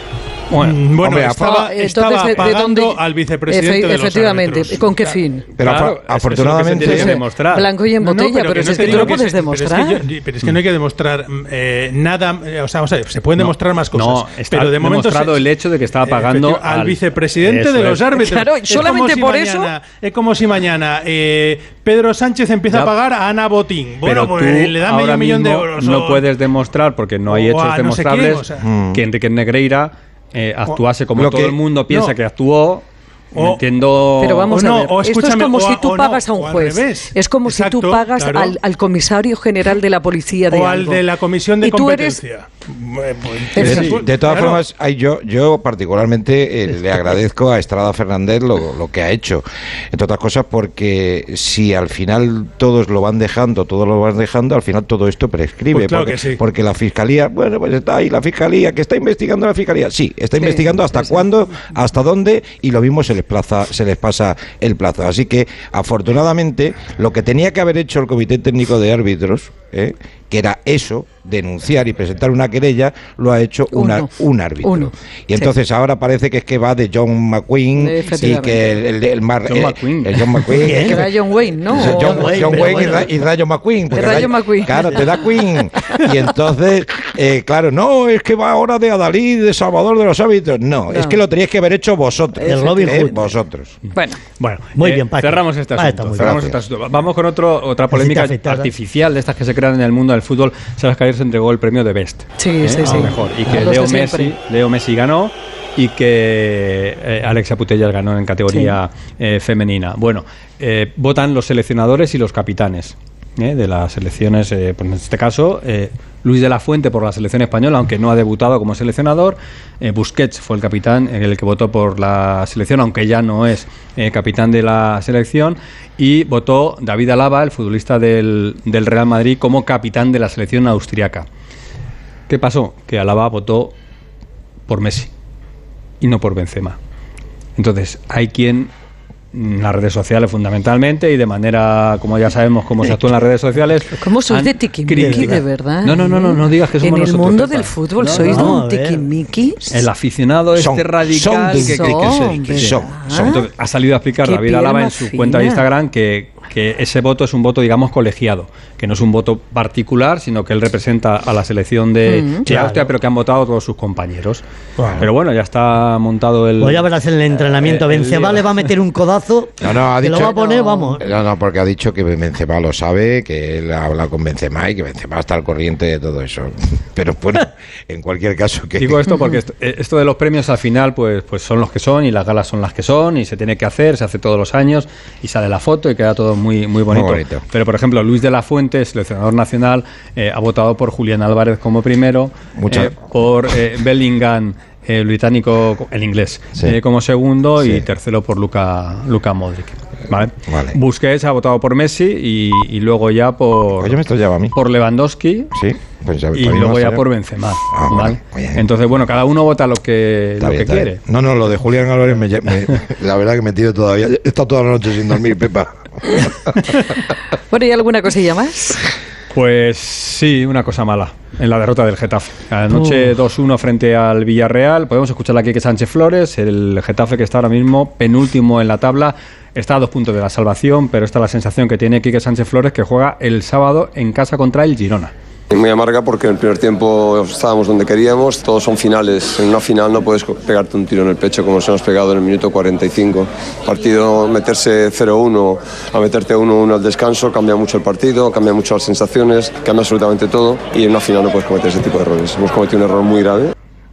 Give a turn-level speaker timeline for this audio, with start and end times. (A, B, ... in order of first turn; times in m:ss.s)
0:00.5-0:00.8 A
0:00.5-0:04.9 B
0:01.0-0:01.4 C
0:01.2-0:05.5 D
0:05.5-0:07.2 C
0:05.6-0:07.7 A
0:06.8-0:10.0 D
0:06.9-0:07.2 B
0:08.0-0:15.5 B
0:13.4-0:18.0 A
0:16.0-0:26.3 B
0:18.1-0:19.7 D
0:24.0-0:34.6 A
0:27.3-0:28.7 B
0:28.6-0:29.0 C
0:31.2-0:31.6 C
0:31.7-0:32.1 B
0:33.3-0:33.6 B
0:34.2-0:41.1 D
0:34.5-0:38.6 B
0:40.5-0:44.6 B
0:41.6-0:42.2 D
0:43.5-0:44.0 D
0:43.6-0:44.0 A
0:43.7-1:33.8 C
0:55.7-0:56.4 B
1:00.4-1:01.2 D
1:13.7-1:15.5 D
1:17.7-1:18.8 D
1:19.4-1:20.4 A
1:20.6-1:21.1 E
1:20.6-1:23.1 D
1:21.7-1:23.1 E
1:23.9-1:25.6 D
1:30.9-1:31.2 D
1:32.4-1:33.2 D
1:32.4-1:33.2 E
1:33.9-1:34.2 D
1:34.4-2:11.3 A
1:34.8-1:36.6 E
1:37.9-1:38.7 E
1:42.4-1:44.3 D
1:48.5-1:48.8 D
2:12.3-2:13.7 A
2:14.7-2:15.1 A
2:16.0-2:16.8 A
2:17.6-2:18.7 A
2:19.3-2:28.6 A
2:24.0-2:29.8 D
2:25.0-2:25.3 E
2:28.1-2:29.1 E
2:29.7-2:44.4 A
2:30.6-2:33.4 C
2:31.5-2:33.5 D
2:34.2-2:35.7 D
2:42.0-2:42.5 D
2:42.4-2:42.9 E
2:44.8-2:45.0 E
2:44.8-2:45.1 C
2:45.0-2:48.7 A
2:46.6-2:51.0 E
2:49.6-2:59.1 C
2:50.5-2:51.0 D
2:58.8-3:24.0 A
3:06.9-3:07.4 C
3:12.6-3:13.0 C
3:20.5-3:20.8 C
3:23.8-3:24.5 C
3:24.5-3:25.5 A
3:25.5-3:27.0 C
3:26.3-3:31.0 A
3:27.7-3:28.6 C
3:30.4-3:36.5 C
3:37.5-3:38.8 D
3:39.3-3:55.1 A
3:55.5-4:13.5 F